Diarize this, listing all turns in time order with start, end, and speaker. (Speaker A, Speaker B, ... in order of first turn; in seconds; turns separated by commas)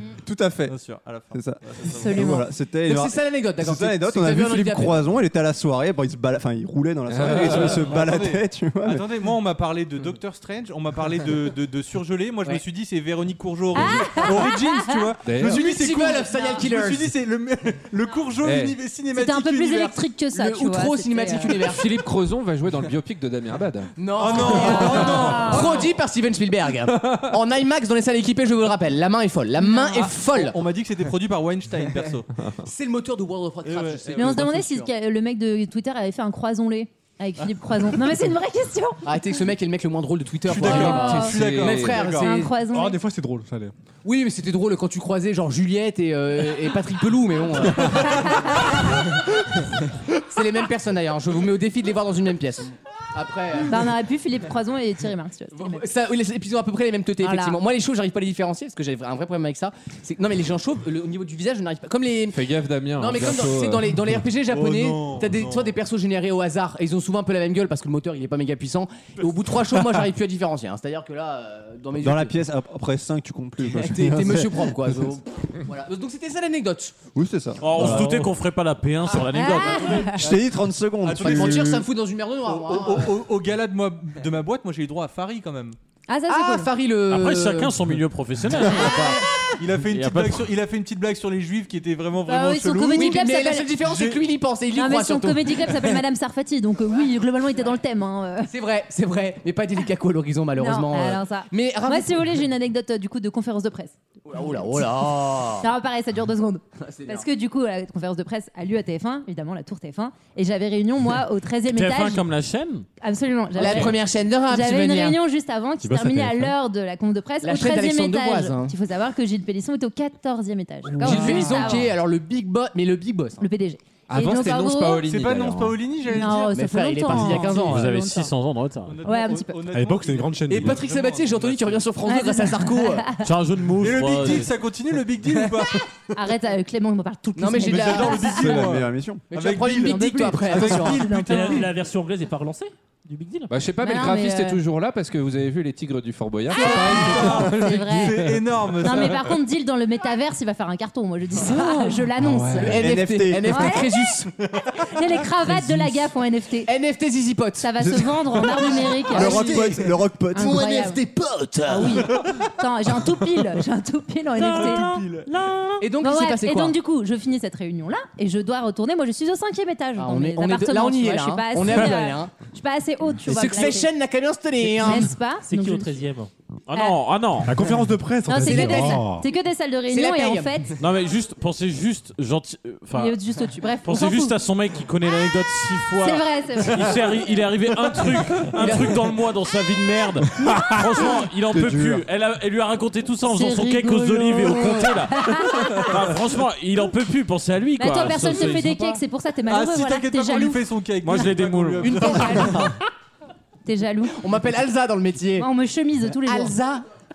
Speaker A: 0.2-0.8, Speaker B: 0.6-2.1, Speaker A: 1.3-9.1, Speaker C: 1.8-2.5, Speaker D: 2.8-5.2, Speaker E: 7.1-8.0, Speaker B: 7.2-20.0, Speaker C: 13.7-15.1, Speaker D: 14.1-14.4, Speaker E: 15.2-15.6, Speaker D: 15.4-17.1, Speaker E: 18.4-18.8, Speaker C: 19.1-21.6, Speaker D: 20.3-22.1, Speaker E: 21.9-23.9, Speaker D: 23.9-30.6, Speaker B: 24.1-25.9, Speaker C: 24.4-25.8, Speaker C: 29.6-30.1, Speaker B: 29.8-32.3, Speaker D: 32.6-34.9, Speaker B: 33.6-34.5, Speaker C: 34.1-39.0, Speaker D: 39.0-42.5, Speaker B: 40.4-42.4, Speaker E: 40.6-42.1, Speaker C: 40.6-41.4, Speaker C: 42.1-43.0, Speaker F: 42.6-43.7, Speaker D: 44.0-49.2, Speaker D: 50.2-53.9, Speaker C: 53.6-55.8, Speaker D: 55.5-72.3, Speaker C: 57.2-57.6, Speaker E: 62.3-63.9, Speaker B: 64.4-65.8, Speaker A: 72.0-75.0, Speaker D: 73.6-77.0, Speaker A: 77.1-78.1, Speaker G: 77.6-80.1, Speaker H: 77.8-78.3, Speaker D: 79.1-79.8, Speaker C: 79.3-80.2, Speaker A: 80.2-81.8, Speaker B: 81.0-81.8, Speaker D: 81.1-83.2, Speaker B: 82.4-85.8, Speaker C: 86.1-86.7, Speaker D: 86.3-87.7, Speaker G: 87.1-89.2, Speaker C: 88.7-89.2, Speaker B: 89.6-93.2, Speaker G: 89.9-90.5, Speaker C: 92.2-93.7, Speaker D: 93.0-95.9, Speaker B: 93.8-94.2, Speaker C: 94.8-98.5, Speaker D: 98.5-102.4, Speaker C: 100.6-103.9, Speaker D: 104.2-105.7, Speaker C: 105.6-112.2, Speaker D: 106.8-107.3, Speaker G: 111.7-112.8, Speaker C: 113.0-121.9, Speaker D: 113.5-115.2, Speaker F: 115.8-116.5, Speaker D: 117.4-118.7, Speaker D: 121.0-123.5, Speaker B: 121.0-121.8, Speaker C: 123.4-125.0, Speaker E: 124.1-125.8, Speaker B: 125.0-126.6, Speaker C: 126.1-128.3, Speaker D: 126.5-127.9, Speaker B: 127.1-127.4, Speaker G: 127.5-128.9, Speaker B: 128.9-131.9, Speaker C: 129.0-129.5, Speaker F: 129.7-130.8, Speaker D: 130.5-133.1, Speaker C: 132.0-133.3, Speaker G: 133.2-134.5, Speaker B: 133.8-135.8, Speaker C: 136.1-138.6, Speaker D: 137.3-138.7, Speaker B: 137.6-141.7, Speaker A: 138.3-139.2, Speaker D: 139.3-141.1, Speaker C: 139.7-141.7, Speaker H: 141.0-143.5, Speaker E: 143.5-148.3, Speaker C: 143.8-144.6, Speaker C: 146.5-148.3, Speaker B: 146.7-149.3, Speaker C: 148.8-152.8, Speaker E: 151.4-152.8, Speaker D: 152.6-154.3, Speaker A: 152.7-153.8, Speaker C: 153.5-153.9, Speaker C: 154.9-156.7, Speaker D: 156.6-159.6, Speaker C: 157.6-159.5, Speaker A: 157.8-158.1, Speaker B: 158.5-159.9, Speaker A: 159.1-161.8, Speaker C: 160.3-161.0, Speaker C: 161.7-164.9, Speaker B: 162.0-162.4, Speaker B: 164.4-165.3, Speaker H: 164.5-165.9, Speaker D: 165.8-166.7, Speaker C: 166.0-173.9, Speaker D: 170.0-172.3, Speaker D: 173.2-175.1, Speaker C: 174.8-175.9, Speaker H: 175.4-176.3, Speaker G: 176.7-177.5, Speaker F: 177.4-179.2, Speaker C: 178.2-180.8, Speaker D: 178.4-179.0, Speaker D: 179.9-180.8, Speaker G: 180.8-183.2, Speaker C: 182.9-184.3, Speaker G: 183.8-199.0, Speaker C: 186.0-186.9, Speaker D: 188.5-189.1, Speaker A: 191.5-192.0, Speaker C: 193.2-196.0, Speaker C: 197.8-200.6, Speaker B: 199.5-202.7, Speaker G: 201.0-202.5, Speaker D: 201.8-202.7, Speaker C: 201.9-202.7, Speaker C: 203.6-204.2, Speaker D: 204.2-205.5, Speaker C: 205.4-206.6, Speaker D: 206.2-206.8